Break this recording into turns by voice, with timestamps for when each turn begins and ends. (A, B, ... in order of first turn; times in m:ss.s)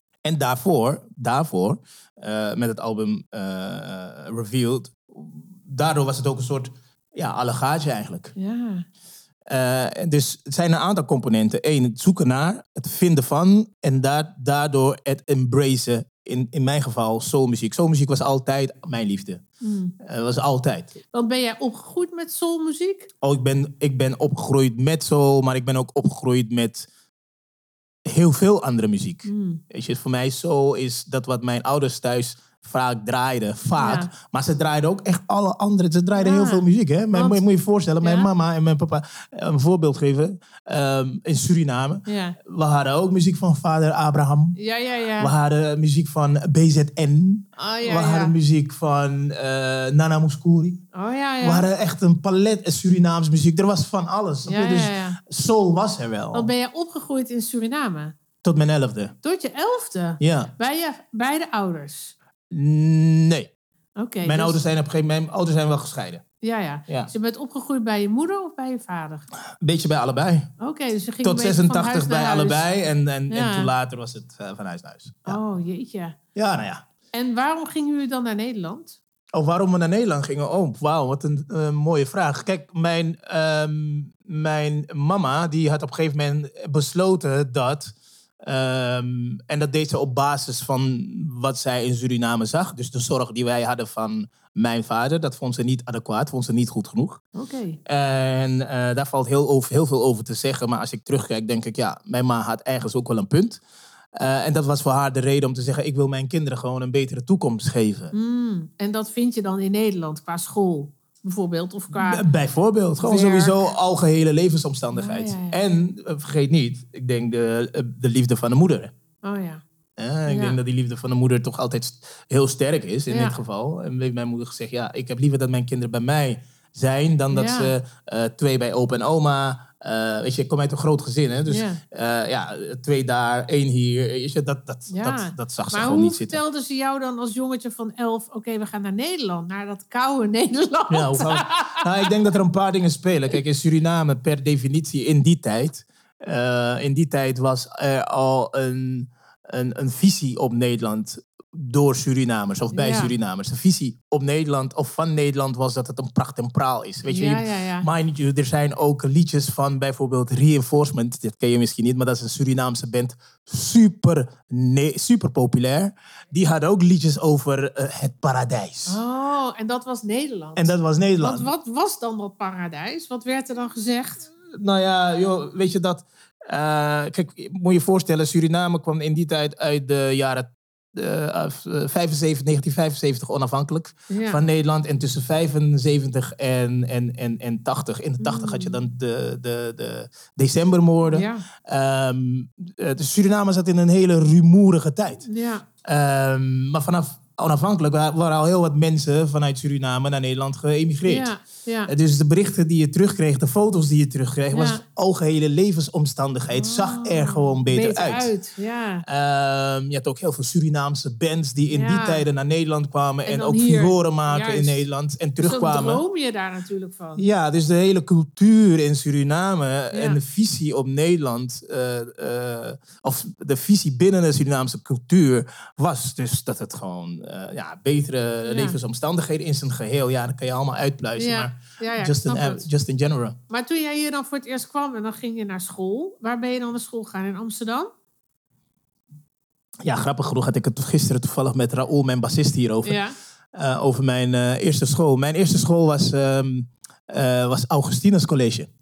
0:00.2-0:08.3 A
0:08.4-0:08.9 B
0:09.5-0:19.4 A
0:19.6-0:20.0 B
0:20.0-0:20.9 A
0:21.1-0:23.1 B
0:23.2-0:26.9 A
0:28.1-0:44.6 A
0:29.2-0:29.6 B
0:33.8-0:34.1 B
0:36.1-0:37.4 B
0:38.0-0:38.3 B
0:42.1-0:42.4 B
0:44.6-0:45.3 B
0:45.2-0:50.8 A
0:47.6-0:48.3 B
0:50.9-0:51.7 B
0:51.4-0:56.5 A
0:54.5-0:55.2 B
0:56.3-0:58.2 B
0:58.4-0:59.2 A
0:59.2-1:02.1 B
1:00.2-1:00.5 A
1:02.5-1:03.5 A
1:04.0-1:04.6 B
1:04.2-1:06.2 A
1:06.4-1:09.3 B
1:09.6-1:10.5 A
1:10.6-1:12.7 B
1:11.2-1:15.4 A
1:13.3-1:13.7 B
1:15.3-1:16.2 B
1:16.4-1:16.8 A
1:17.1-1:19.0 B
1:19.3-1:37.2 A
1:37.4-1:37.8 B
1:37.9-1:43.6 A
1:44.2-1:48.1 A
1:48.1-1:52.2 B
1:51.9-1:58.9 A
1:53.0-1:53.7 B
1:54.9-1:55.6 B
1:59.2-1:59.6 B
2:00.0-2:16.4 A
2:00.3-2:00.6 B
2:03.1-2:03.4 B
2:07.3-2:07.7 B
2:11.5-2:11.8 B
2:14.9-2:22.1 B
2:20.9-2:49.0 A
2:32.7-2:33.1 B
2:37.1-2:37.9 B
2:48.9-2:54.3 B
2:50.6-2:51.5 A
2:54.5-3:15.3 A
3:04.1-3:04.4 B
3:08.2-3:08.7 B
3:11.1-3:11.5 B
3:15.2-3:15.7 B
3:15.8-3:21.3 A
3:21.1-3:21.9 B
3:21.9-3:28.3 A
3:24.5-3:24.8 B
3:26.5-3:29.0 B
3:29.0-3:36.0 A
3:31.7-3:32.2 B
3:33.3-3:34.8 B
3:35.4-3:37.2 B
3:37.2-3:53.4 A
3:39.9-3:40.2 B
3:48.5-3:48.8 B
3:51.2-3:52.7 B
3:53.5-3:57.9 B
3:59.8-4:03.0 A
4:02.8-4:03.2 B
4:03.5-4:08.7 A